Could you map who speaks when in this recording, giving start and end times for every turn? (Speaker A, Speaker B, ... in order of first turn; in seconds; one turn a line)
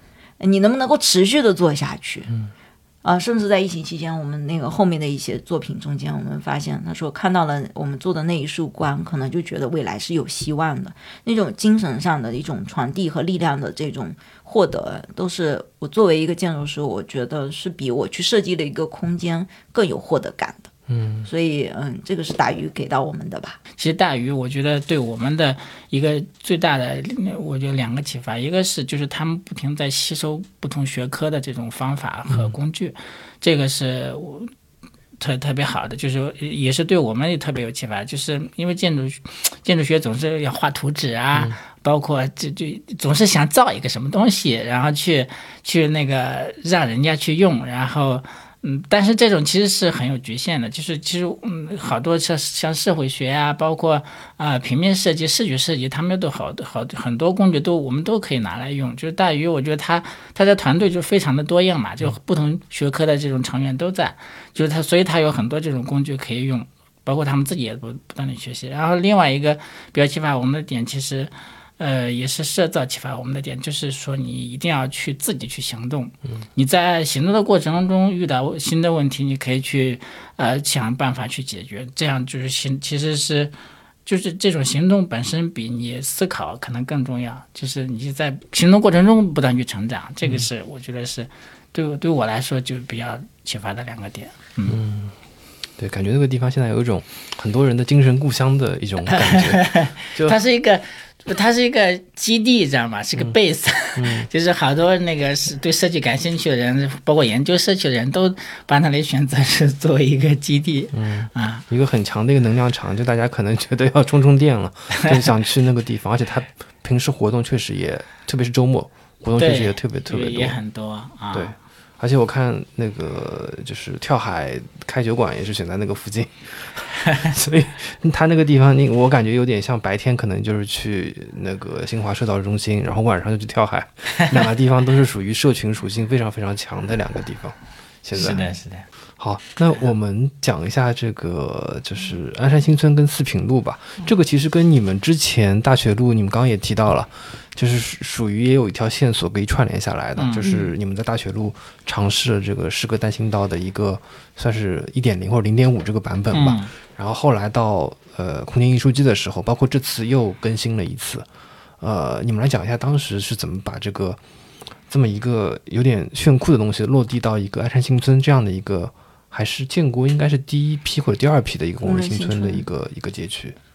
Speaker A: 0.4-2.3
Speaker A: 3.0-20.7
Speaker B: 20.9-21.3
Speaker A: 21.2-23.6
Speaker C: 23.8-34.5
Speaker C: 35.2-83.5
Speaker C: 84.0-94.8
Speaker B: 94.7-95.1
Speaker B: 95.8-100.4
Speaker C: 99.4-111.6
Speaker B: 103.9-104.3
Speaker B: 110.9-120.6
Speaker C: 119.4-121.5
Speaker B: 121.3-138.6
Speaker C: 138.2-138.8
Speaker B: 139.2-161.3
Speaker C: 150.2-150.5
Speaker C: 156.3-156.7
Speaker B: 161.8-164.2
Speaker B: 164.9-173.6
Speaker A: 171.8-172.6